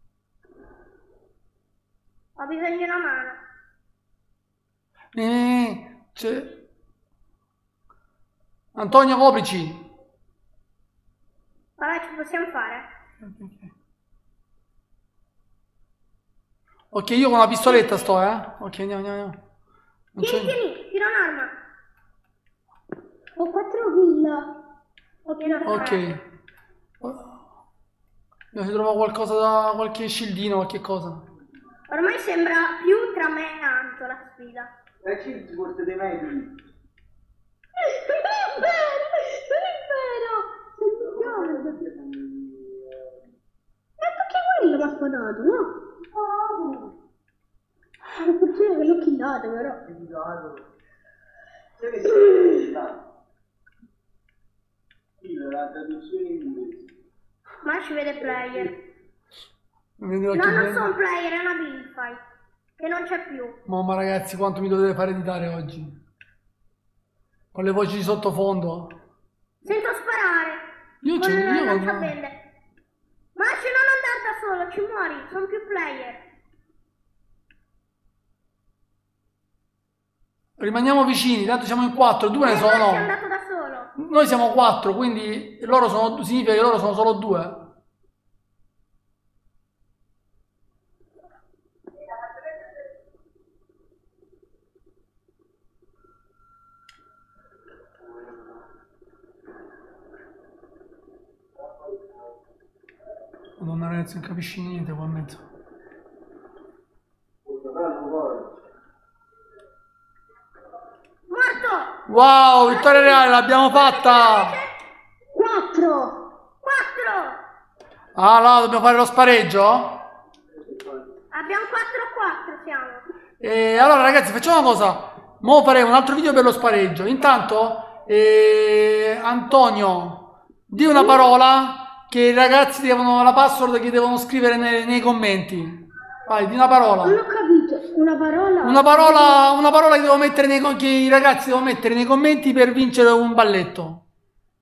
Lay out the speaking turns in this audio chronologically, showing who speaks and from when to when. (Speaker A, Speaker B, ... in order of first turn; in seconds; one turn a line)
Speaker A: 2.4-3.4
Speaker B: 5.1-6.5
Speaker B: 8.7-9.8
Speaker A: 11.8-12.8
Speaker B: 13.2-13.7
Speaker B: 16.9-19.4
Speaker A: 17.6-18.1
Speaker B: 20.1-20.5
Speaker A: 20.2-21.5
Speaker C: 23.4-24.5
Speaker C: 25.2-25.9
Speaker A: 25.4-26.0
Speaker B: 25.6-26.2
Speaker B: 27.0-27.4
Speaker B: 28.5-31.2
Speaker A: 31.9-34.7
Speaker D: 35.0-36.5
Speaker C: 37.8-41.8
Speaker D: 41.8-43.0
Speaker C: 44.0-45.7
Speaker C: 48.1-49.8
Speaker D: 49.9-50.6
Speaker C: 52.0-52.8
Speaker D: 52.7-53.0
Speaker D: 55.2-56.9
Speaker A: 57.6-58.8
Speaker B: 60.0-60.9
Speaker A: 60.3-62.2
Speaker A: 62.8-63.6
Speaker B: 63.6-66.0
Speaker B: 67.5-69.0
Speaker A: 69.6-70.6
Speaker B: 71.0-72.1
Speaker A: 71.2-72.3
Speaker A: 73.3-76.2
Speaker B: 80.6-83.1
Speaker A: 82.4-83.9
Speaker B: 84.0-87.7
Speaker B: 103.6-105.4
Speaker D: 107.5-108.5
Speaker A: 111.3-111.9
Speaker B: 112.1-114.5
Speaker A: 112.6-114.7
Speaker C: 115.3-116.2
Speaker A: 116.6-117.4
Speaker B: 118.1-120.0
Speaker A: 121.3-123.0
Speaker B: 123.4-137.2
Speaker C: 130.9-131.2
Speaker C: 137.0-139.4
Speaker B: 138.6-144.0